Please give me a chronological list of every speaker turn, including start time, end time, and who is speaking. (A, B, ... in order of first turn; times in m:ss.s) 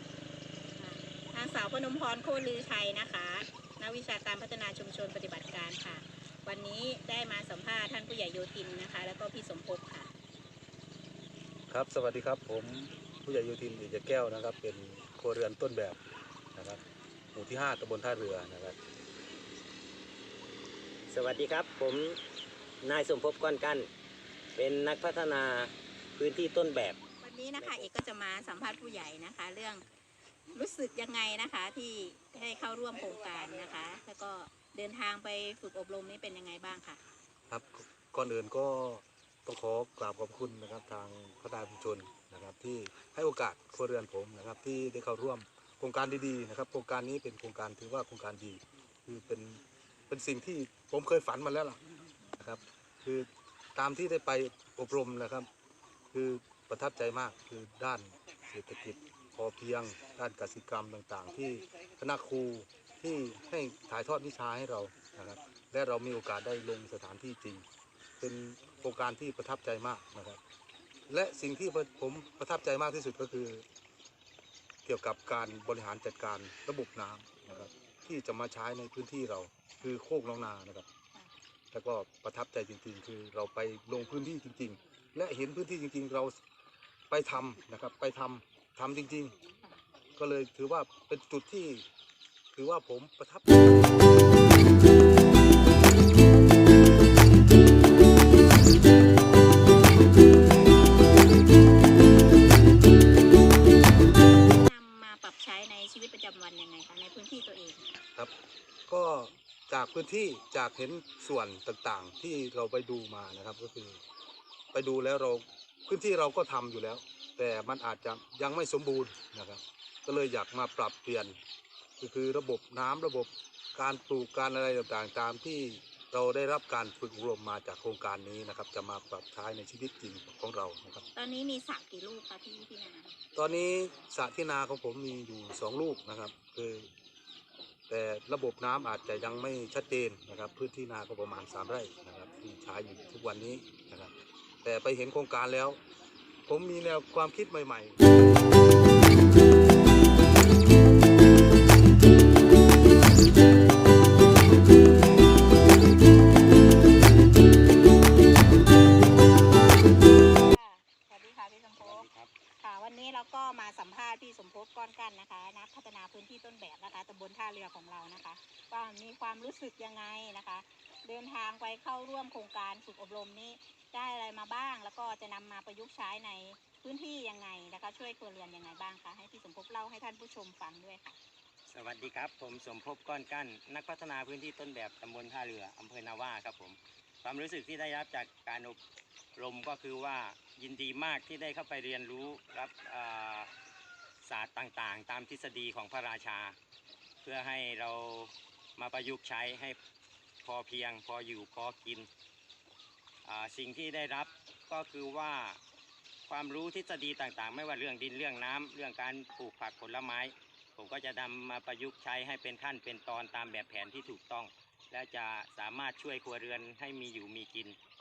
0:00.8-0:10.1 A
0:11.7-0:16.0 B
0:16.6-0:16.8 B
0:17.3-0:18.8 B
0:21.1-0:22.2 C
0:22.8-0:23.9 C
0:24.6-0:27.0 C
0:27.2-0:29.8 A
0:27.6-0:27.9 C
0:30.5-0:37.0 A
0:37.5-0:51.8 B
0:52.4-0:55.5 B
0:56.1-1:07.6 B
1:08.2-1:10.4 B
1:11.1-1:13.7 B
1:14.8-1:20.9 B
1:21.7-1:26.4 B
1:27.1-1:29.4 B
1:30.2-1:31.9 B
1:32.5-1:33.8 B
1:44.5-1:47.9 A
1:48.9-1:54.0 B
1:54.7-2:01.4 B
2:02.0-2:11.0 B
2:11.2-2:13.2 A
2:13.4-2:16.9 B
2:17.9-2:25.8 B
2:26.5-2:28.5 B
2:40.2-2:42.1 A
2:41.8-2:42.3 C
2:42.6-3:01.2 A
3:01.7-3:08.8 C
3:09.4-3:13.5 C
3:14.2-3:16.6 C
3:17.2-3:19.8 C
3:20.4-3:22.1 C
3:23.2-3:25.6 C
3:26.3-3:37.8 C